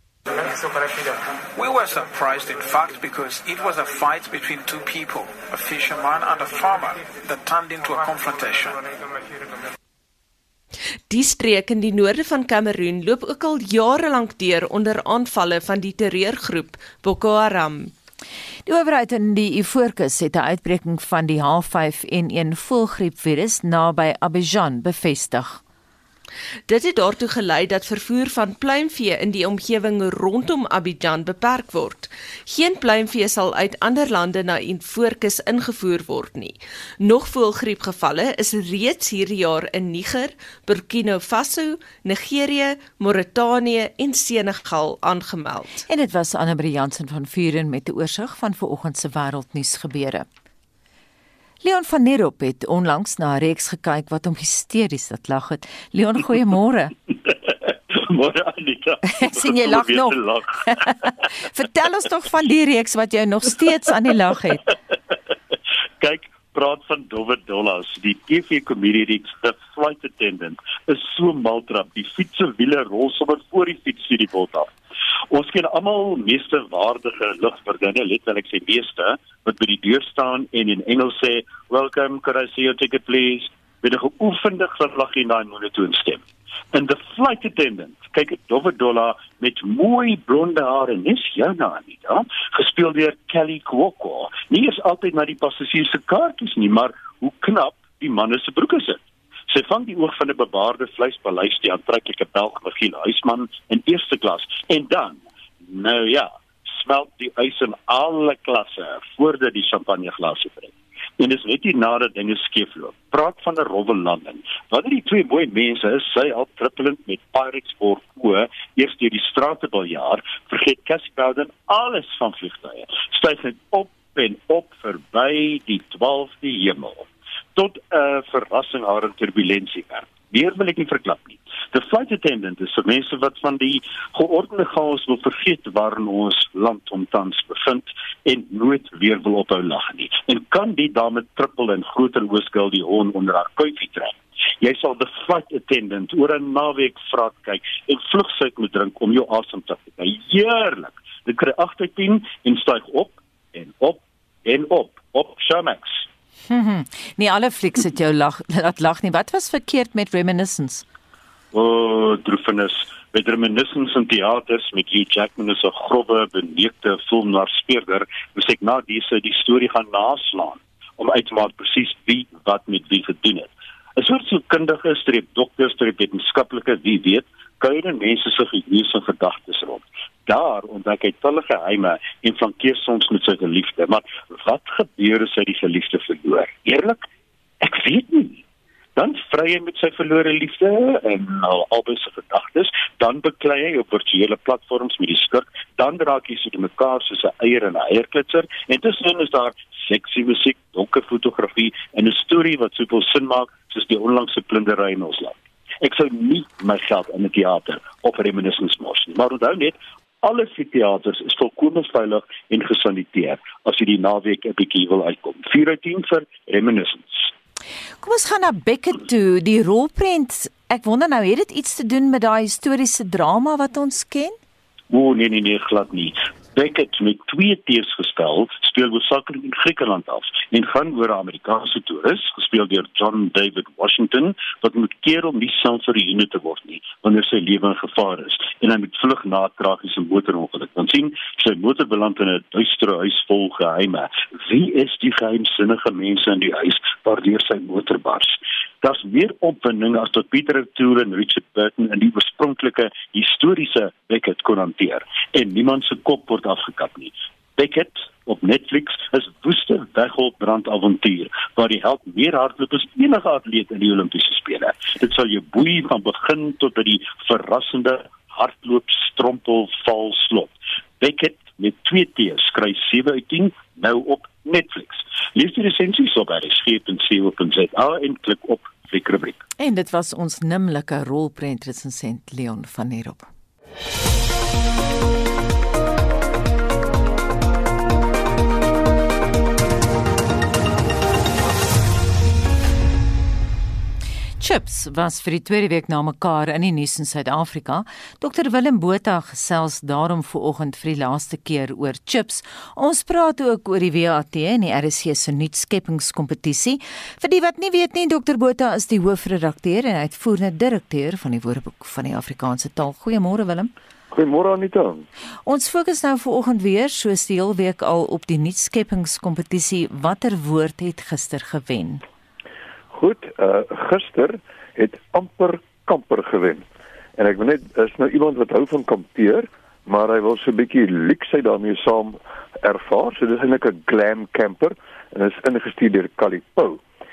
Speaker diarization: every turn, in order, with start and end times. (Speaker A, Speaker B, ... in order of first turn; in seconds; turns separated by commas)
Speaker A: 1.5-8.8, Speaker B: 11.1-17.9, Speaker C: 18.6-25.6, Speaker B: 26.7-45.8, Speaker C: 45.9-50.2, Speaker C: 51.6-56.9, Speaker D: 58.0-61.1, Speaker C: 59.1-64.7, Speaker D: 66.0-74.7, Speaker D: 75.3-156.1, Speaker C: 156.5-160.8, Speaker D: 161.5-187.1, Speaker D: 187.6-188.4, Speaker D: 188.9-217.3, Speaker C: 218.0-224.3, Speaker D: 224.9-279.4, Speaker C: 279.6-283.3, Speaker C: 294.4-313.7, Speaker E: 314.1-315.0, Speaker C: 315.4-322.0, Speaker E: 322.9-326.6, Speaker E: 327.1-336.8